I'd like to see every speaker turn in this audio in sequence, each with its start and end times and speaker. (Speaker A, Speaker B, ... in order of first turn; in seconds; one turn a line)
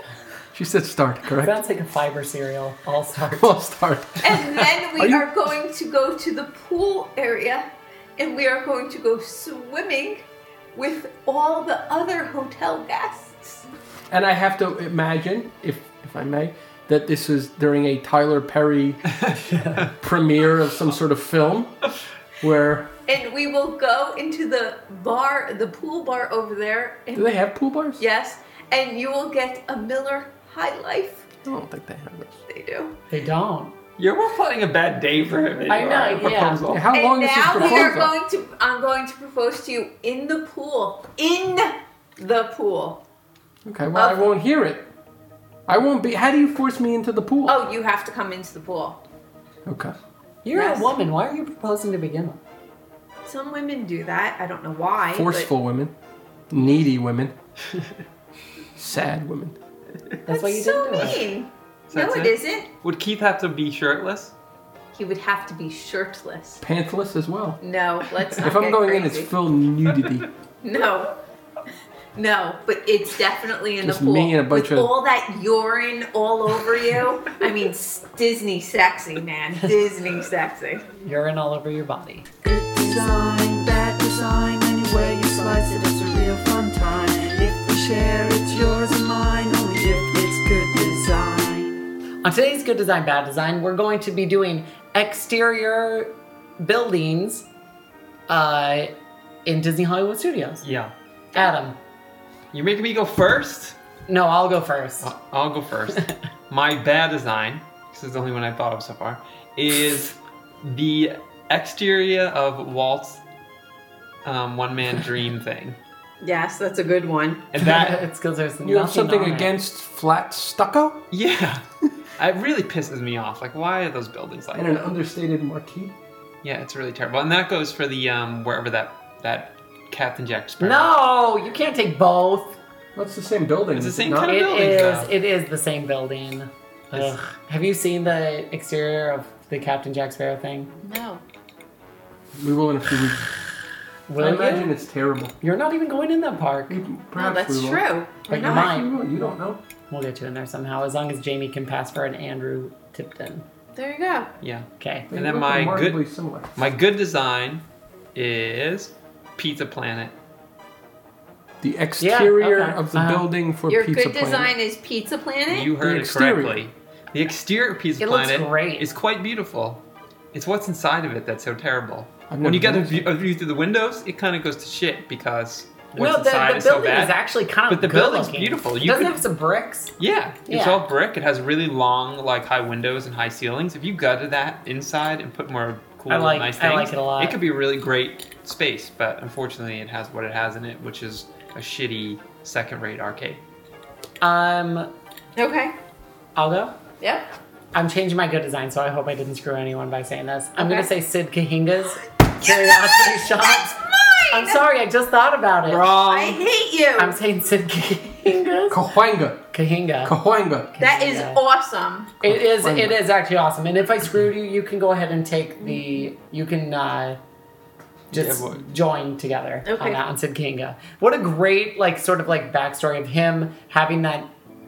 Speaker A: 0.5-1.6
Speaker B: 1.4-3.5
Speaker A: 3.3-5.2
Speaker C: 4.2-13.7
Speaker A: 14.1-19.1
Speaker D: 19.2-19.9
Speaker A: 20.0-21.8
Speaker A: 22.4-22.9
Speaker C: 23.1-27.3
Speaker A: 27.1-28.0
Speaker C: 28.0-31.2
Speaker A: 31.4-32.3
Speaker C: 32.5-33.0
Speaker B: 33.1-33.7
Speaker D: 34.0-36.9
Speaker B: 35.7-36.6
Speaker A: 36.7-38.1
Speaker C: 36.9-43.0
Speaker D: 37.5-37.9
Speaker A: 43.6-44.9
Speaker C: 43.9-44.2
Speaker A: 45.7-47.6
Speaker C: 47.4-49.0
Speaker A: 49.6-49.9
Speaker B: 50.4-52.4
Speaker C: 50.5-50.9
Speaker C: 53.2-55.5
Speaker A: 55.1-55.9
Speaker A: 56.5-57.3
Speaker A: 58.8-59.5
Speaker B: 60.3-61.2
Speaker C: 60.3-62.7
Speaker D: 61.9-64.3
Speaker C: 64.9-66.6
Speaker A: 66.6-67.6
Speaker C: 67.6-69.3
Speaker A: 68.4-70.3
Speaker C: 70.6-71.2
Speaker C: 72.1-80.8
Speaker A: 73.8-74.9
Speaker B: 81.0-82.2
Speaker E: 82.4-91.8
Speaker B: 92.2-97.5
Speaker B: 98.3-98.9
Speaker B: 99.4-100.6
Speaker D: 100.6-100.9
Speaker B: 101.3-101.8
Speaker D: 102.5-103.8
Speaker B: 104.1-105.1
Speaker D: 105.0-113.2
Speaker D: 114.2-115.8
Speaker C: 116.2-117.5
Speaker D: 117.5-118.0
Speaker B: 117.6-119.5
Speaker A: 118.6-121.0
Speaker D: 121.1-121.6
Speaker D: 122.2-124.8
Speaker A: 124.5-125.9
Speaker D: 126.4-130.9
Speaker B: 130.6-132.6
Speaker A: 132.9-134.4
Speaker D: 133.7-135.1
Speaker B: 134.2-140.7
Speaker C: 140.8-141.2
Speaker A: 142.3-143.3
Speaker B: 144.1-144.7
Speaker A: 144.2-145.3
Speaker B: 145.4-146.8
Speaker A: 146.7-149.6
Speaker C: 147.2-148.7
Speaker B: 148.3-149.3
Speaker B: 149.9-153.4
Speaker C: 153.7-154.3
Speaker D: 154.4-156.0
Speaker B: 154.8-155.1
Speaker A: 155.1-156.6
Speaker D: 156.6-157.6
Speaker D: 158.1-160.1
Speaker A: 161.6-164.5
Speaker B: 162.0-163.3
Speaker C: 163.7-165.7
Speaker D: 165.5-169.8
Speaker A: 165.8-166.6
Speaker B: 168.0-168.9
Speaker D: 170.3-177.1
Speaker A: 172.3-173.1
Speaker B: 175.9-179.9
Speaker D: 177.7-179.2
Speaker D: 180.0-193.4
Speaker B: 180.5-180.8
Speaker B: 186.1-187.4
Speaker B: 194.2-194.9
Speaker C: 195.3-195.7
Speaker B: 196.3-196.7
Speaker C: 197.0-197.3
Speaker B: 197.7-205.9
Speaker C: 200.6-200.9
Speaker C: 202.4-204.6
Speaker A: 205.7-206.4
Speaker C: 206.0-207.2
Speaker B: 207.0-208.8
Speaker A: 208.7-209.5
Speaker B: 209.5-210.1
Speaker A: 210.0-210.7
Speaker B: 210.7-211.4
Speaker C: 210.8-212.1
Speaker A: 212.2-213.0
Speaker B: 212.2-217.2
Speaker B: 218.1-224.3
Speaker D: 218.1-218.6
Speaker C: 219.6-220.0